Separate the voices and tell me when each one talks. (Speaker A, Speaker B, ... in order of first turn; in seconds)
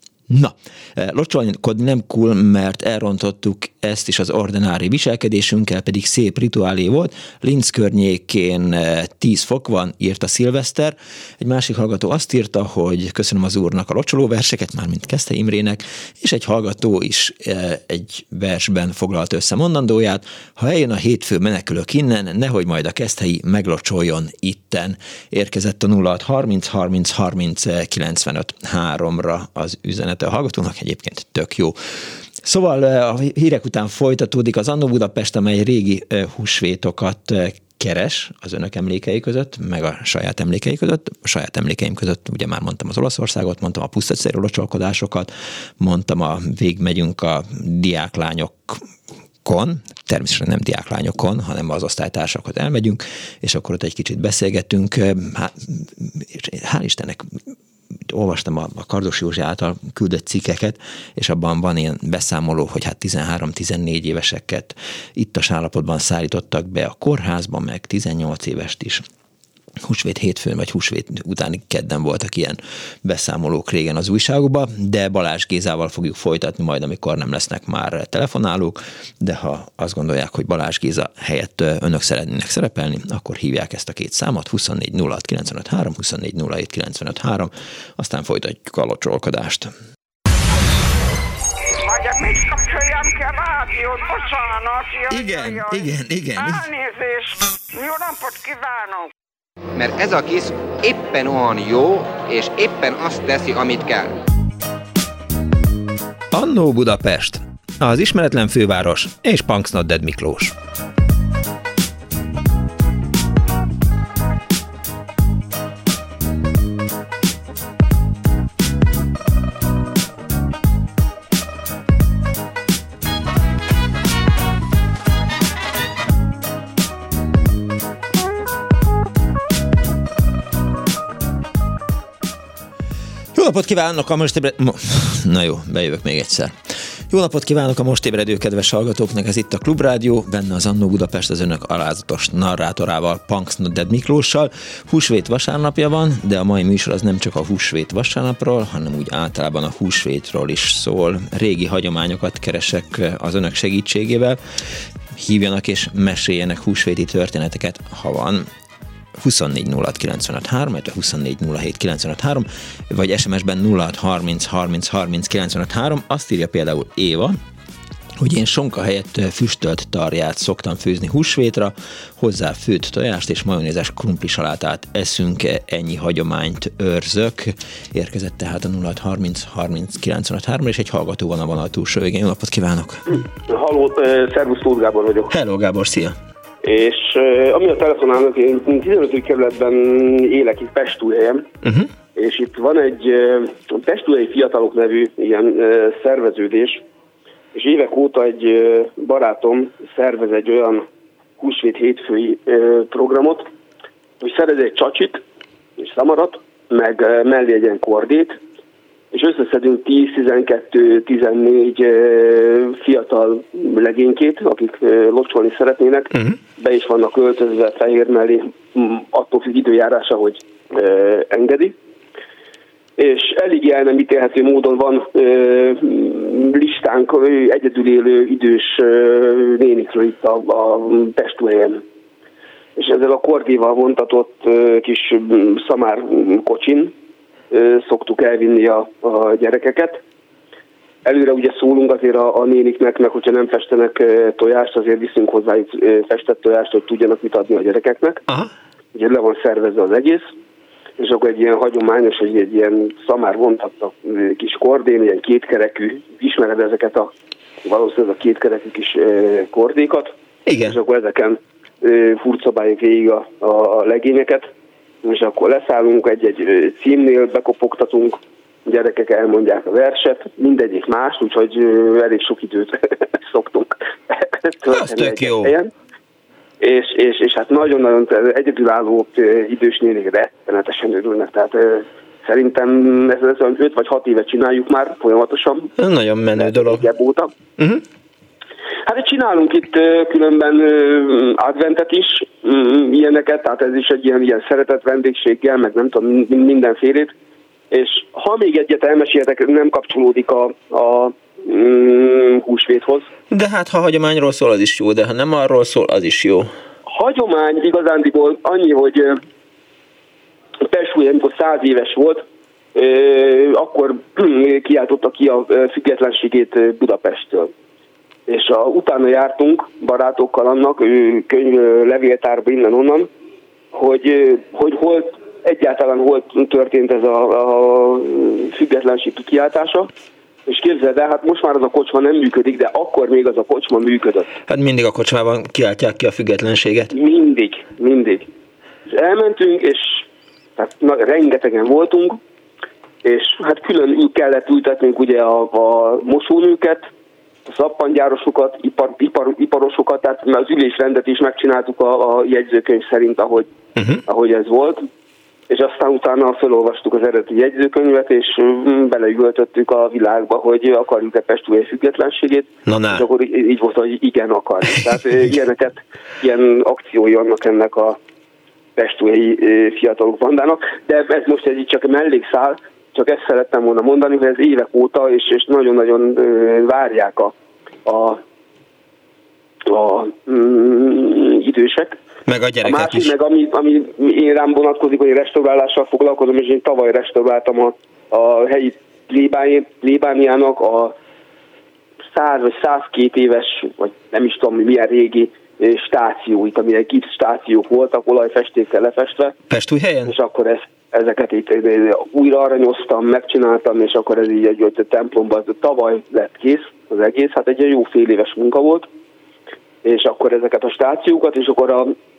Speaker A: 0.3-48.8, 49.4-57.4, 58.1-69.0, 69.8-89.7, 95.1-96.7, 106.3-110.5, 133.3-136.6, 137.1-158.4, 159.2-167.3, 168.2-183.1, 185.3-186.2, 191.6-191.9, 260.4-260.8, 274.7-275.6, 285.8-286.9, 287.6-287.8, 303.3-306.5, 334.5-336.9, 353.8-354.0, 362.6-363.1, 382.2-383.1, 399.5-400.1
Speaker B: 91.8-95.8, 96.4-99.1
Speaker C: 99.8-104.1
Speaker D: 183.5-185.3, 186.6-191.4, 192.2-196.8, 197.5-200.8, 201.4-203.4, 204.2-205.2, 205.8-208.3, 209.1-221.7, 223.0-231.8, 232.8-236.9, 237.5-240.0, 241.0-248.2, 248.9-250.2, 251.0-257.1, 257.6-260.1, 260.6-264.4, 265.0-268.1, 268.7-273.7, 274.4-275.7, 276.6-285.7, 286.4-287.3, 288.9-297.1, 297.7-303.1, 306.9-309.1, 310.7-312.2, 312.7-317.5, 318.3-323.1, 323.7-329.9, 330.5-334.2, 336.9-338.2, 338.9-340.0, 340.6-342.2, 343.0-346.8, 347.5-353.5, 354.1-354.8, 355.5-367.9, 368.8-377.3, 377.9-378.2, 379.7-381.9, 382.6-390.9, 392.1-399.3, 400.1-408.9, 409.8-411.9